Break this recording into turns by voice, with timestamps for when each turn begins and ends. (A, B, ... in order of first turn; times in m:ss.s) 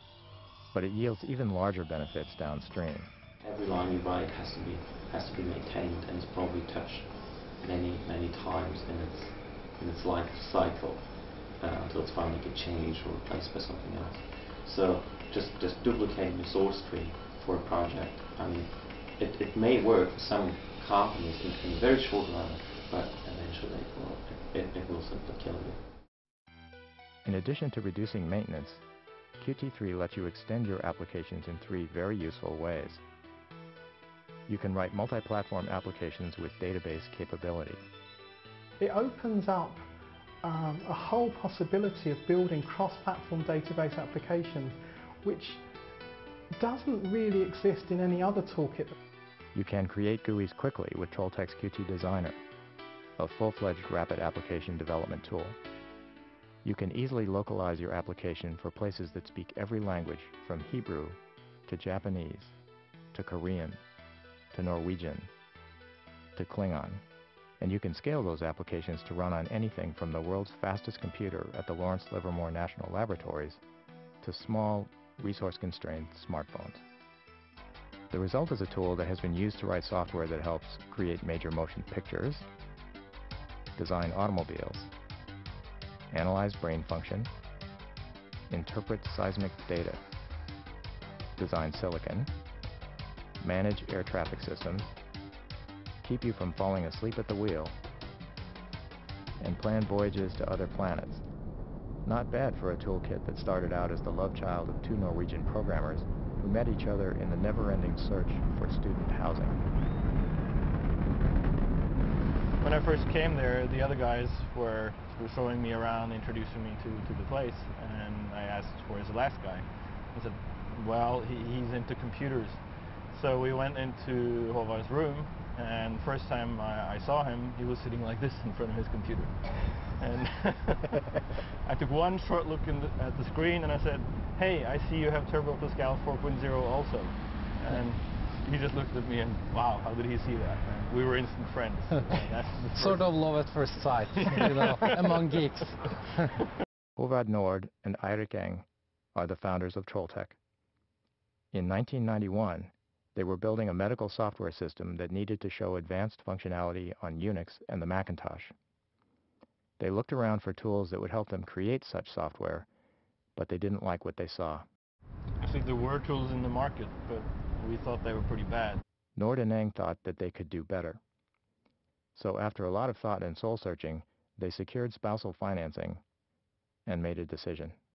0:00.7-0:03.1 A
0:03.4-0:25.8 B
0:27.2-0:28.8 A
0:29.4-0:33.0 A
0:34.5-0:37.8 A
0:38.8-0:39.7 C
0:40.6-0:44.7 C
0:46.6-0:48.9 C
0:49.5-0:52.4 A
0:53.2-0:55.6 A
0:56.6-1:02.6 A
1:03.1-1:03.8 A
1:04.5-1:05.3 A
1:06.4-1:07.0 A
1:07.6-1:13.6 A
1:14.2-1:16.8 A
1:18.1-1:22.5 A
1:23.8-1:24.9 A
1:26.1-1:27.4 A
1:28.5-1:30.0 A
1:31.4-1:32.3 A
1:33.4-1:34.9 A
1:36.0-1:37.8 A
1:39.4-1:41.2 A
1:42.0-1:49.6 A
1:52.6-2:11.0 D
2:11.6-2:23.2 D
2:22.7-2:26.4 E
2:24.1-2:25.0 D
2:27.0-2:30.4 A
2:31.5-2:38.5 A
2:39.8-2:42.7 A
2:43.4-2:44.6 A
2:45.4-2:48.8 D
2:49.2-2:51.0 A
2:52.2-2:56.0 A
2:56.9-2:57.8 A